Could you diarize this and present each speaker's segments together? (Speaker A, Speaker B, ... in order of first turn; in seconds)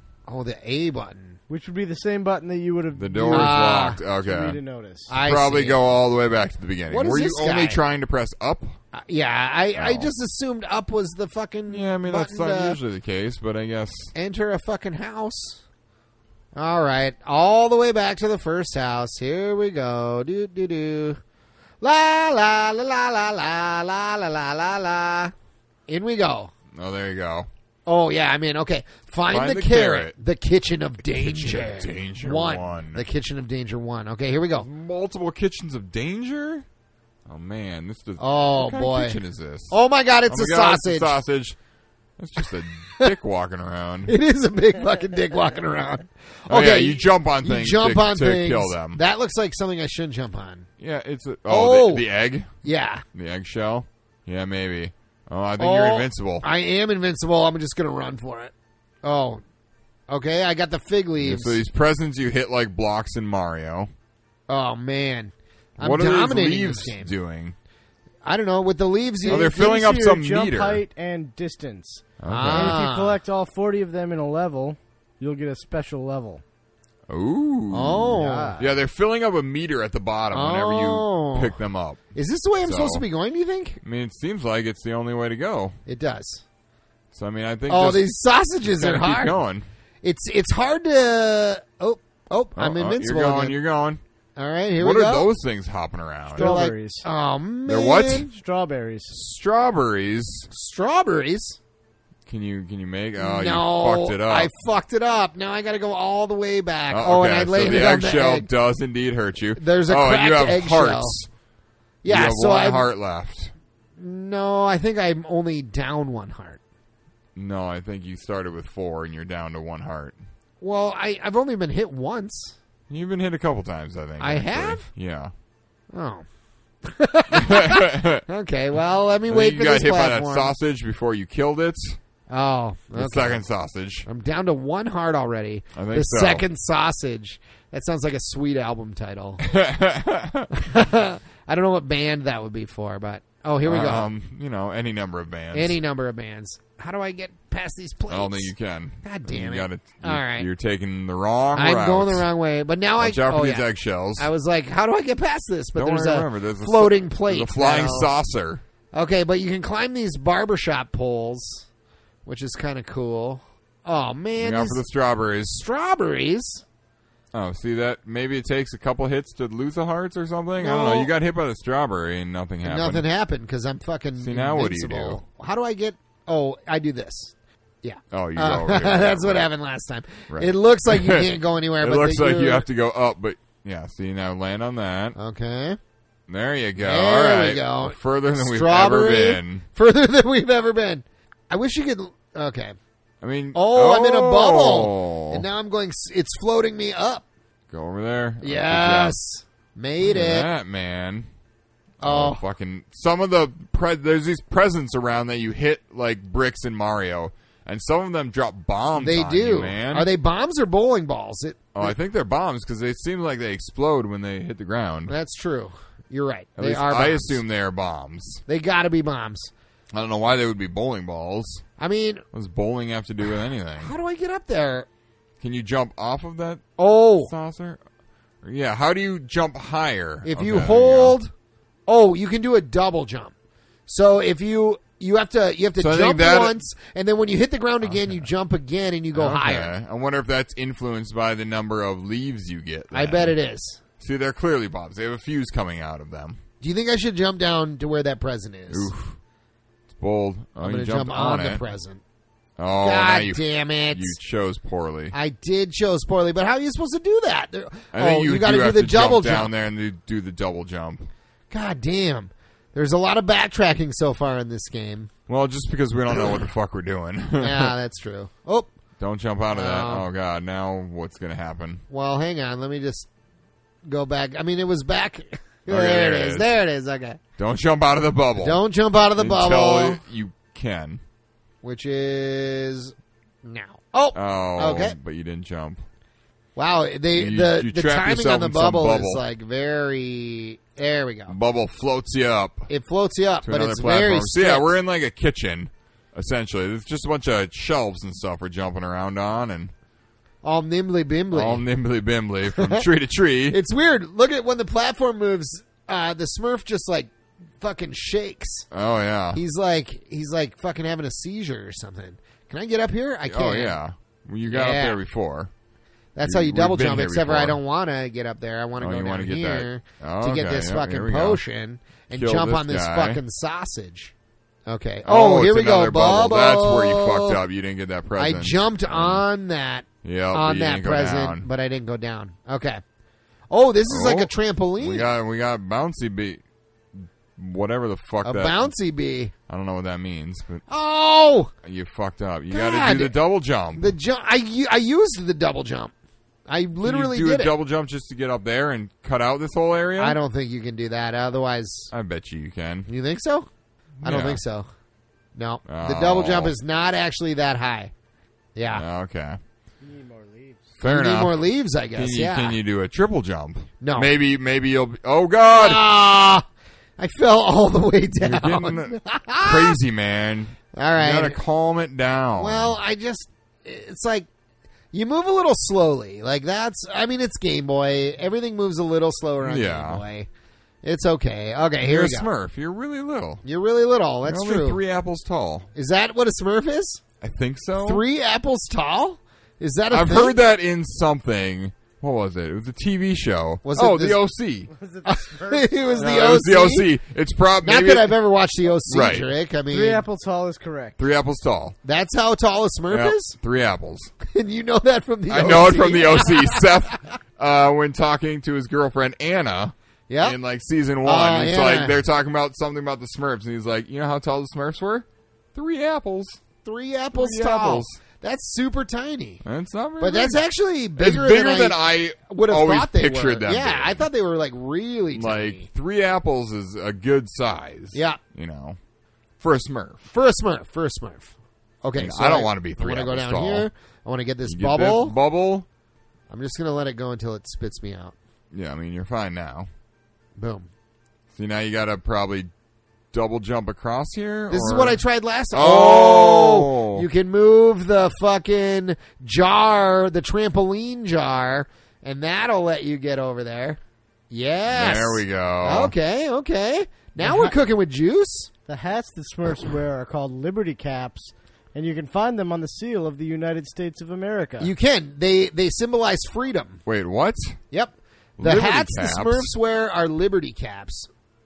Speaker A: 0.3-1.4, 3.3-4.0, 5.1-5.8, 6.9-7.8, 8.9-12.8, 14.2-15.6, 16.6-21.2, 21.8-25.3, 25.9-26.5, 27.9-34.7, 38.2-39.2, 39.7-41.2, 44.1-50.7, 51.5-52.0, 52.6-53.0, 55.6-58.5, 59.0-59.4, 60.1-61.6, 64.5-67.1, 68.2-69.7, 72.3-73.2, 77.7-78.6, 80.3-81.6, 82.2-83.8, 85.9-86.4, 87.7-89.4, 90.0-93.6, 94.4-95.3, 96.4-98.3, 100.5-101.6, 103.2-108.5, 109.6-111.2, 112.0-112.9, 114.0-116.6, 120.6-122.6, 124.2-124.9, 125.9-126.3, 126.8-130.5, 132.3-133.4, 134.1-139.4, 140.5-144.1, 145.5-148.5, 149.0-150.5, 151.6-158.1, 158.9-161.7, 162.2-164.8, 165.6-166.6, 170.6-171.1, 172.6-182.7, 185.2-185.8, 186.8-192.8, 193.5-197.3, 198.4-200.5, 202.0-202.4, 209.0-211.9, 215.1-217.4, 218.5-219.5, 221.8-222.2, 223.8-224.9, 226.8-227.3, 230.2-231.3, 231.9-233.3, 233.9-239.7, 242.9-243.8, 246.6-248.9, 250.6-252.0, 252.8-254.2, 255.1-259.5, 261.5-265.1, 266.1-266.5, 267.4-268.7, 269.5-270.1, 271.9-273.1, 273.9-277.2, 278.4-280.0, 281.6-285.0, 286.6-291.4, 292.7-294.7, 300.4-301.6, 302.5-302.9, 303.5-308.7, 309.3-313.8, 314.5-315.0, 316.1-324.1, 324.7-327.4, 328.2-332.8, 333.5-335.1, 338.2-339.3, 340.7-341.5, 342.5-343.2, 343.8-345.9, 346.5-347.5, 350.0-351.9, 352.9-353.5, 354.0-354.7, 355.4-357.9, 358.6-358.8, 360.8-362.6, 363.8-364.1, 365.5-366.4, 367.0-369.8, 370.7-371.4, 372.4-374.3, 374.9-380.3, 380.8-382.3, 383.4-384.8, 385.8-387.0, 387.8-390.4, 393.6-394.2, 395.1-396.9, 397.6-400.0, 401.8-403.4, 404.2-406.8, 410.1-410.4, 411.0-412.0, 416.6-419.4, 420.0-425.7, 427.9-428.2, 430.1-435.2, 436.3-438.1, 440.4-440.7, 444.5-458.5, 464.6-466.8, 467.7-471.1
Speaker B: 1.5-3.6, 4.1-5.1, 69.2-76.4, 78.2-78.7, 96.4-97.1, 98.3-99.1, 359.8-360.7, 394.7-396.0, 399.7-401.0, 457.2-457.6, 458.7-464.7
Speaker C: 2.9-4.6, 5.1-8.8, 9.8-10.1, 11.7-14.1, 26.8-27.5, 29.3-30.1, 31.1-33.0, 34.6-36.6, 37.3-39.8, 40.3-41.6, 42.2-44.1, 46.5-49.0, 50.8-52.5, 53.1-56.5, 61.2-63.9, 65.8-67.5, 69.3-70.8, 72.2-72.8, 77.1-82.0, 82.6-83.0, 83.8-85.8, 87.1-88.1, 88.6-89.7, 92.6-94.0, 94.8-96.5, 97.7-98.3, 99.1-100.5, 102.3-104.5, 106.9-111.3, 112.1-113.5, 117.4-120.2, 122.9-125.3, 127.3-128.3, 129.3-132.0, 132.9-134.1, 135.7-136.4, 139.4-140.5, 143.6-145.8, 148.1-152.3, 153.0-154.3, 155.8-158.6, 164.4-165.6, 167.3-173.1, 174.2-175.2, 178.1-179.5, 180.3-185.2, 186.3-189.7, 193.2-195.4, 197.7-199.2, 200.0-201.3, 202.0-210.1, 211.8-215.2, 216.6-218.4, 219.9-221.6, 222.3-223.9, 225.4-226.6, 227.2-227.8, 228.4-231.2, 235.8-236.6, 237.8-238.2, 239.1-243.4, 244.0-246.4, 248.7-249.2, 249.9-251.6, 252.6-255.2, 257.9-261.1, 265.3-267.7, 269.0-271.8, 275.7-276.5, 277.4-278.6, 279.2-281.0, 284.1-285.8, 287.1-289.2, 291.3-292.7, 293.4-299.7, 301.3-303.6, 308.7-309.4, 313.3-315.5, 316.2-317.6, 318.8-321.4, 322.1-323.2, 325.0-329.2, 330.0-331.5, 333.9-336.4, 337.0-338.7, 339.5-340.6, 341.6-343.9, 346.8-350.2, 351.9-352.9, 354.0-354.4, 355.7-356.6, 358.7-359.4, 360.8-361.4, 361.9-365.8, 368.2-372.8, 379.4-380.0, 381.8-383.4, 384.2-385.7, 387.2-388.0, 389.9-394.7, 396.0-398.2, 398.9-399.3, 401.0-401.8, 402.9-404.1, 405.3-416.4, 417.1-418.0, 419.4-420.4, 421.0-424.1, 425.1-428.8, 429.4-430.1, 432.0-433.7, 434.4-435.7, 438.5-439.7, 441.4-442.5, 443.1-445.0, 445.5-447.1, 454.7-455.9, 466.9-467.6, 468.4-469.5